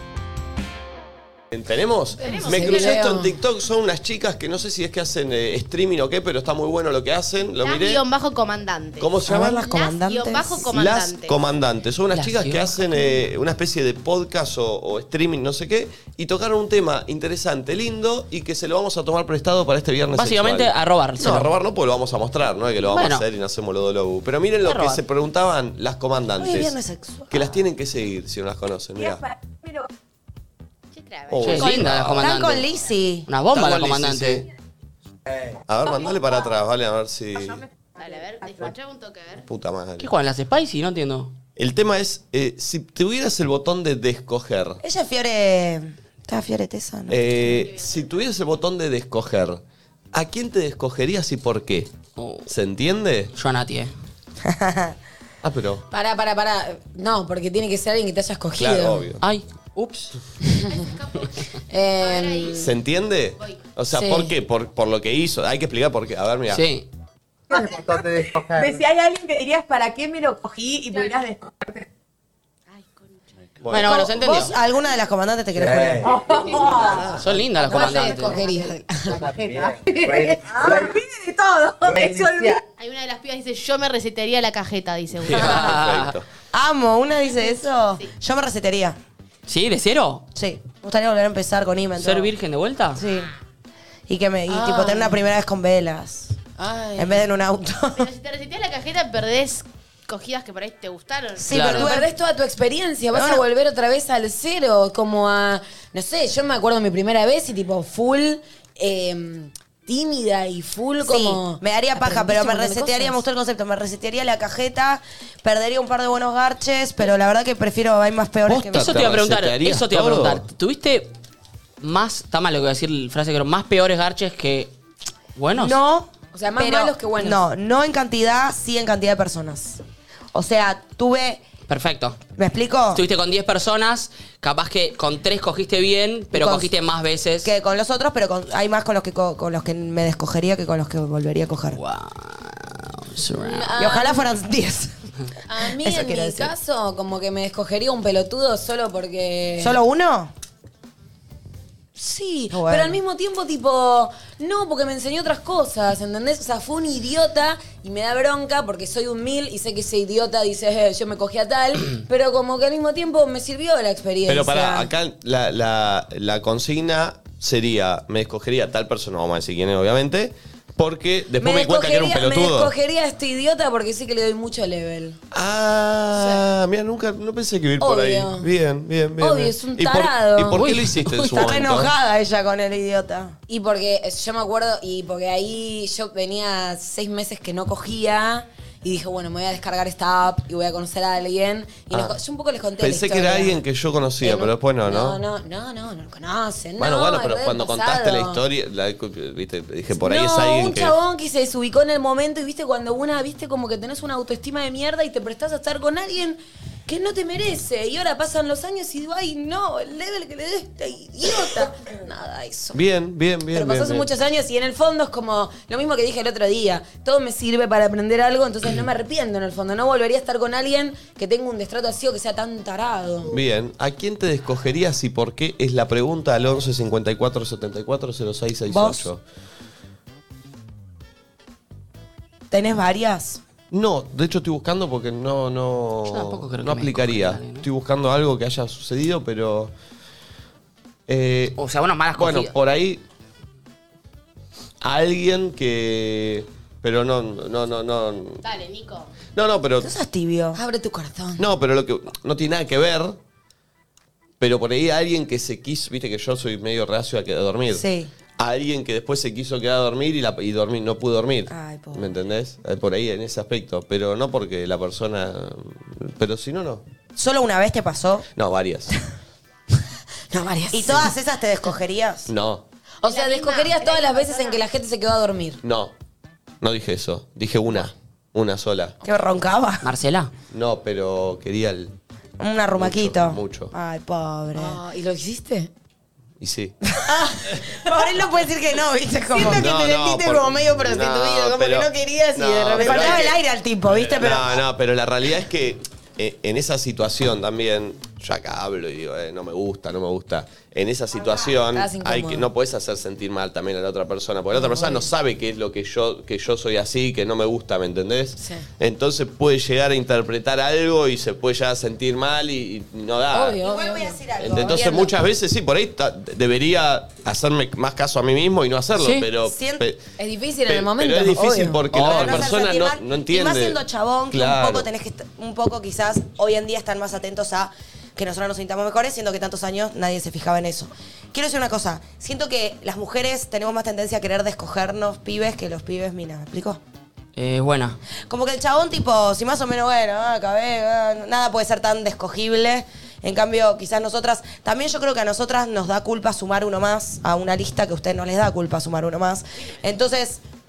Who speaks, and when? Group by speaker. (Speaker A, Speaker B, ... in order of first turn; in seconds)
Speaker A: 1.5-8.0, 9.0-9.6, 10.7-26.8, 27.3-29.2, 31.3-32.3, 33.5-34.4, 35.7-37.6, 39.5-40.1, 41.6-44.8, 47.1-49.6, 50.1-51.9, 52.5-53.3, 55.4-55.8, 58.6-59.2, 62.5-66.7, 73.6-74.0, 85.2-86.2, 118.5-120.4, 164.3-172.7, 175.3-181.9, 192.8-195.2, 196.8-201.0, 212.7-214.1, 223.3-229.2, 233.7-239.7, 241.1-241.6, 242.1-243.0, 244.8-248.4, 249.3-249.9, 251.4-253.2, 254.4-257.8, 258.4-266.8, 268.4-268.9, 272.3-272.6, 275.6-275.9, 276.6-279.0, 280.5-281.9, 282.8-283.7, 286.4-286.7, 289.4-293.4, 294.1-313.6, 314.4-320.0, 320.7-324.9
Speaker B: 2.2-3.1, 7.6-11.3, 30.9-31.6, 35.9-36.6, 37.3-39.5, 47.4-48.3, 60.7-63.7, 72.7-73.1, 77.7-78.6, 82.8-85.8, 98.0-101.6, 248.4-249.1, 273.1-274.6
Speaker C: 2.2-3.3, 55.9-59.0, 60.4-60.8, 61.7-62.7, 63.9-64.3, 77.6-79.3, 94.5-95.3, 96.6-97.3, 101.7-113.2, 126.3-127.4, 143.4-144.2, 145.5-149.8, 152.0-164.9, 171.4-175.2, 176.2-176.4, 177.8-178.5, 179.2-180.6, 183.5-193.6, 194.2-198.4, 199.9-212.8, 213.5-223.3, 250.5-251.4, 270.3-271.1, 273.0-275.6, 284.6-285.7, 289.3-293.3, 301.6-302.5, 304.6-305.1, 308.4-308.7, 313.3-314.2, 320.2-322.5
Speaker D: 9.3-10.7, 26.4-27.6, 31.6-33.3, 44.8-47.2, 54.5-55.0, 73.7-76.1, 76.8-77.0, 86.5-89.0, 90.3-92.3, 93.0-93.3, 94.1-96.3, 97.0-98.1, 101.4-102.1, 103.1-103.4, 111.0-119.1, 125.6-129.8, 130.3-131.4, 132.4-133.0, 136.3-136.7, 137.4-141.8, 143.8-144.9, 145.8-146.5, 149.6-150.3, 152.5-153.0, 181.3-183.3, 228.7-229.1, 232.5-233.4, 249.8-250.6, 257.7-258.1, 261.5-262.1, 267.2-268.3, 270.7-272.3, 279.0-279.9, 282.4-284.8, 287.0-289.8, 292.8-294.6, 313.6-315.2, 319.4-319.8, 321.9-336.8, 338.3-350.4
Speaker E: 12.2-12.8, 20.1-21.5, 22.9-23.2, 24.6-25.0, 31.4-32.6, 33.3-34.5, 40.0-41.3, 52.2-52.5, 53.4-53.9, 59.2-60.1, 66.5-66.9, 73.7-74.5, 77.2-78.5, 85.2-86.2, 89.5-90.2, 92.0-93.0, 101.5-101.9, 118.7-121.1, 121.8-124.7, 125.4-125.8, 131.7-132.2, 132.9-137.5, 141.8-143.8, 180.5-181.7, 236.1-237.7, 241.6-242.5, 279.8-280.3, 319.0-319.3, 337.4-338.0
Speaker F: 29.0-29.9, 67.5-71.7, 79.5-82.6